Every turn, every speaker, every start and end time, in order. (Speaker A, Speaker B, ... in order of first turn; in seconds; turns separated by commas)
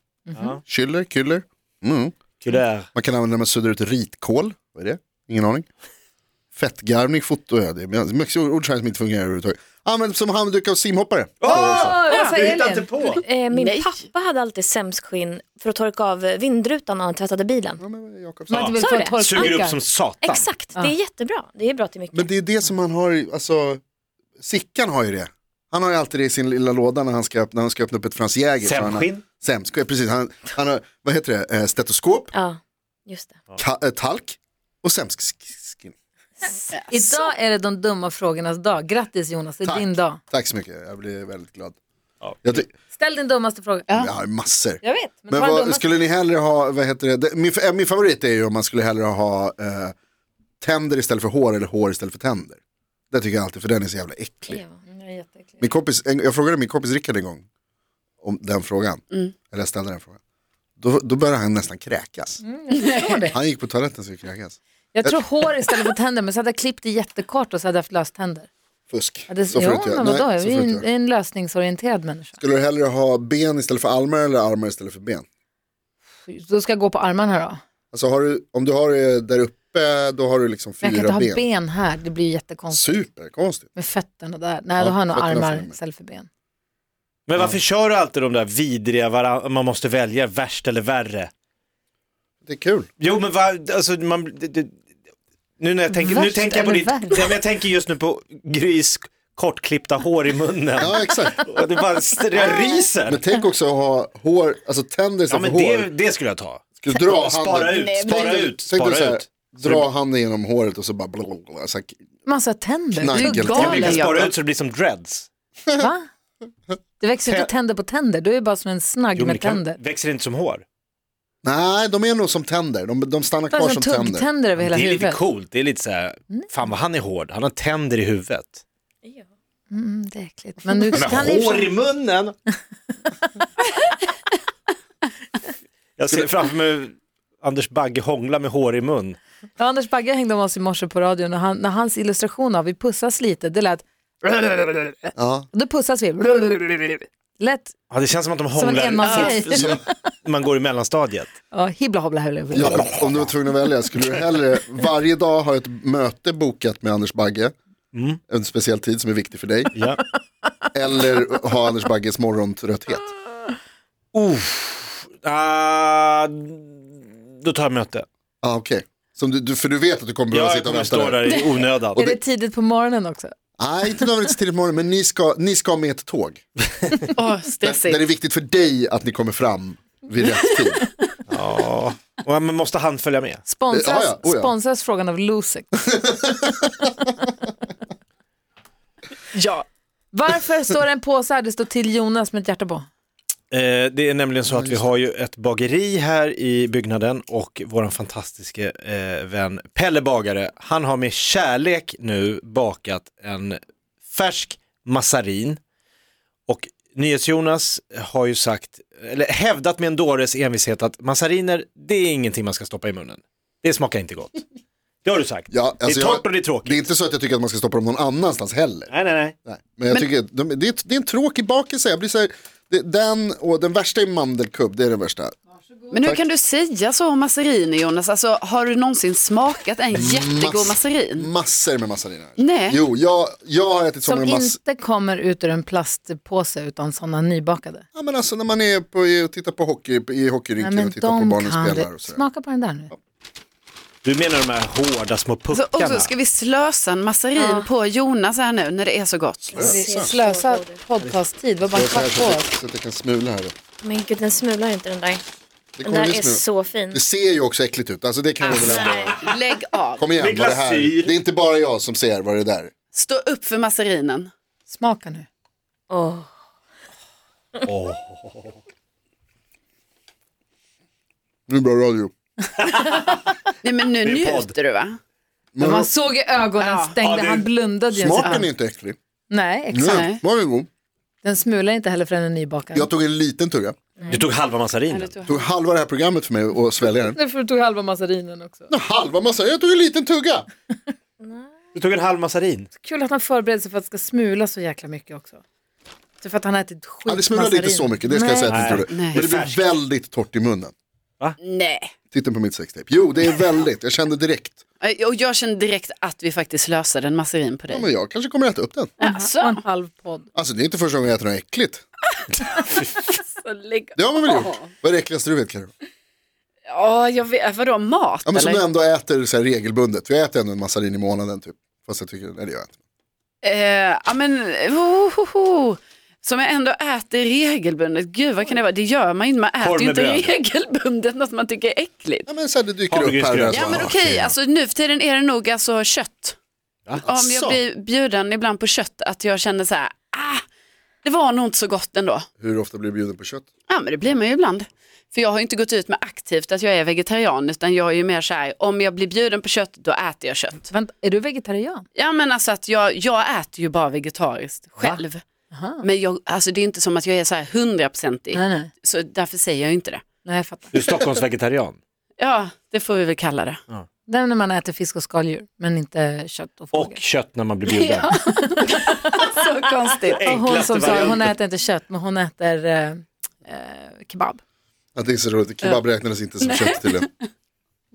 Speaker A: 0.3-0.6, Speaker B: 0.7-2.1, Speaker A: 2.4-2.9, Speaker B: 3.0-5.7, Speaker B: 6.5-12.0, Speaker A: 11.4-13.2, Speaker C: 11.5-13.0, Speaker D: 12.1-12.3, Speaker E: 13.2-17.8, Speaker D: 13.5-14.1, Speaker B: 17.8-18.8, Speaker A: 18.5-20.5, Speaker C: 18.5-19.8, Speaker E: 18.8-19.6, Speaker E: 20.2-22.3, Speaker B: 22.1-23.8, Speaker B: 24.4-32.3, Speaker A: 28.6-29.2, Speaker E: 32.3-33.4, Speaker B: 33.6-35.9, Speaker C: 36.7-40.2, Speaker D: 36.7-37.3, Speaker B: 39.6-41.8, Speaker A: 42.2-42.6, Speaker B: 42.4-42.7, Speaker C: 42.9-43.9, Speaker B: 43.9-49.9, Speaker C: 44.8-45.9, Speaker B: 50.6-52.6, Speaker B: 53.1-54.6, Speaker C: 54.9-55.8, Speaker B: 55.6-57.5, Speaker B: 58.2-60.2, Speaker B: 60.8-62.4, Speaker C: 62.4-63.4, Speaker D: 62.7-63.3, Speaker B: 63.3-65.2, Speaker C: 64.9-68.5, Speaker B: 68.9-70.9, Speaker C: 69.3-72.4, Speaker B: 72.4-75.2, Speaker C: 76.3-77.6, Speaker B: 77.9-81.5, Speaker C: 80.8-83.0, Speaker B: 82.7-83.7, Speaker C: 83.8-86.3, Speaker B: 84.8-85.8, Speaker A: 87.3-91.3, Speaker B: 92.5-92.9, Speaker A: 93.0-94.7, Speaker A: 95.6-103.2, Speaker C: 95.9-97.3, Speaker B: 100.8-101.4, Speaker B: 103.1-105.9, Speaker A: 105.3-109.9, Speaker B: 106.8-112.0, Speaker D: 107.7-108.5, Speaker C: 112.3-113.9, Speaker B: 112.9-114.1, Speaker D: 113.1-114.3, Speaker A: 113.6-115.3, Speaker C: 115.8-116.1, Speaker C: 117.0-119.8, Speaker A: 119.2-120.7, Speaker B: 121.4-124.3, Speaker C: 123.5-125.2, Speaker A: 124.6-128.6, Speaker C: 129.7-131.7, Speaker A: 130.9-132.4, Speaker A: 136.0-139.2, Speaker C: 139.6-147.8, Speaker B: 145.2-145.5, Speaker A: 147.9-151.3, Speaker C: 148.5-149.9, Speaker D: 149.0-149.4, Speaker B: 149.5-149.8, Speaker C: 151.5-152.9, Speaker B: 152.6-157.5, Speaker A: 152.6-153.3, Speaker A: 157.9-158.2, Speaker B: 158.3-159.7, Speaker B: 160.7-163.1, Speaker A: 164.1-168.1, Speaker B: 168.4-171.3, Speaker A: 170.3-172.2, Speaker C: 171.9-173.3, Speaker B: 173.6-176.4, Speaker D: 177.2-178.1, Speaker B: 177.6-180.9, Speaker A: 181.3-183.4, Speaker C: 183.5-185.7, Speaker B: 183.7-184.5, Speaker B: 185.9-187.1, Speaker D: 189.3-189.7, Speaker C: 190.1-192.9, Speaker A: 193.5-205.6, Speaker B: 194.5-194.8, Speaker A: 206.5-214.4, Speaker A: 215.0-216.8, Speaker B: 215.5-218.9, Speaker A: 218.9-219.3, Speaker B: 219.5-225.3, Speaker D: 225.9-231.3, Speaker B: 229.9-234.6, Speaker D: 232.4-232.8, Speaker C: 234.0-237.8, Speaker B: 237.9-242.2, Speaker C: 240.6-242.9, Speaker A: 244.0-246.1, Speaker D: 245.5-249.7, Speaker E: 247.4-247.7, Speaker B: 249.5-250.2, Speaker C: 249.6-252.5, Speaker E: 249.7-250.8, Speaker B: 251.7-253.6, Speaker E: 253.8-255.2, Speaker B: 255.8-259.2, Speaker E: 255.8-257.0, Speaker D: 258.4-260.1, Speaker A: 258.5-259.2, Speaker B: 260.0-262.7, Speaker A: 260.2-261.1, Speaker D: 262.9-264.3, Speaker C: 264.7-265.3, Speaker E: 265.9-266.3, Speaker A: 267.7-268.6, Speaker B: 271.5-272.1, Speaker A: 272.6-274.5, Speaker D: 273.6-275.0, Speaker B: 275.5-275.9, Speaker C: 275.6-278.5, Speaker D: 276.6-277.0, Speaker A: 277.0-277.5, Speaker B: 277.9-279.0, Speaker C: 279.3-280.1, Speaker B: 279.7-280.7, Speaker D: 279.9-280.2, Speaker C: 281.2-282.9, Speaker B: 282.7-283.8, Speaker A: 284.1-285.1, Speaker D: 284.9-285.5, Speaker B: 285.3-287.2, Speaker C: 287.1-288.7, Speaker B: 288.7-290.5, Speaker A: 291.8-292.7, Speaker C: 292.8-295.4, Speaker C: 296.2-298.9, Speaker B: 297.1-300.7, Speaker A: 298.5-299.7, Speaker D: 298.9-299.2, Speaker D: 301.4-301.9, Speaker B: 302.1-304.6, Speaker D: 304.8-307.9, Speaker B: 307.7-308.9, Speaker D: 309.0-309.6, Speaker C: 309.0-310.3, Speaker B: 310.4-311.8, Speaker D: 312.4-314.7, Speaker B: 314.0-315.7, Speaker D: 316.7-318.6, Speaker B: 318.3-322.7, Speaker D: 323.4-332.3, Speaker A: 329.6-330.3, Speaker B: 332.3-334.2, Speaker A: 332.9-334.3, Speaker D: 333.5-336.4, Speaker B: 337.0-337.6, Speaker D: 337.1-340.4, Speaker D: 341.0-342.3, Speaker B: 342.4-343.5, Speaker D: 343.7-350.7, Speaker C: 350.7-351.9, Speaker D: 351.9-355.2, Speaker C: 355.5-355.8, Speaker D: 355.8-360.0, Speaker C: 358.3-358.7, Speaker C: 360.2-360.8, Speaker A: 360.7-361.8, Speaker D: 362.2-363.6, Speaker C: 364.1-367.0, Speaker A: 366.7-368.1, Speaker D: 367.6-370.3, Speaker C: 368.1-368.8, Speaker A: 370.1-371.3, Speaker C: 370.2-374.4, Speaker B: 375.0-377.1, Speaker D: 376.4-377.1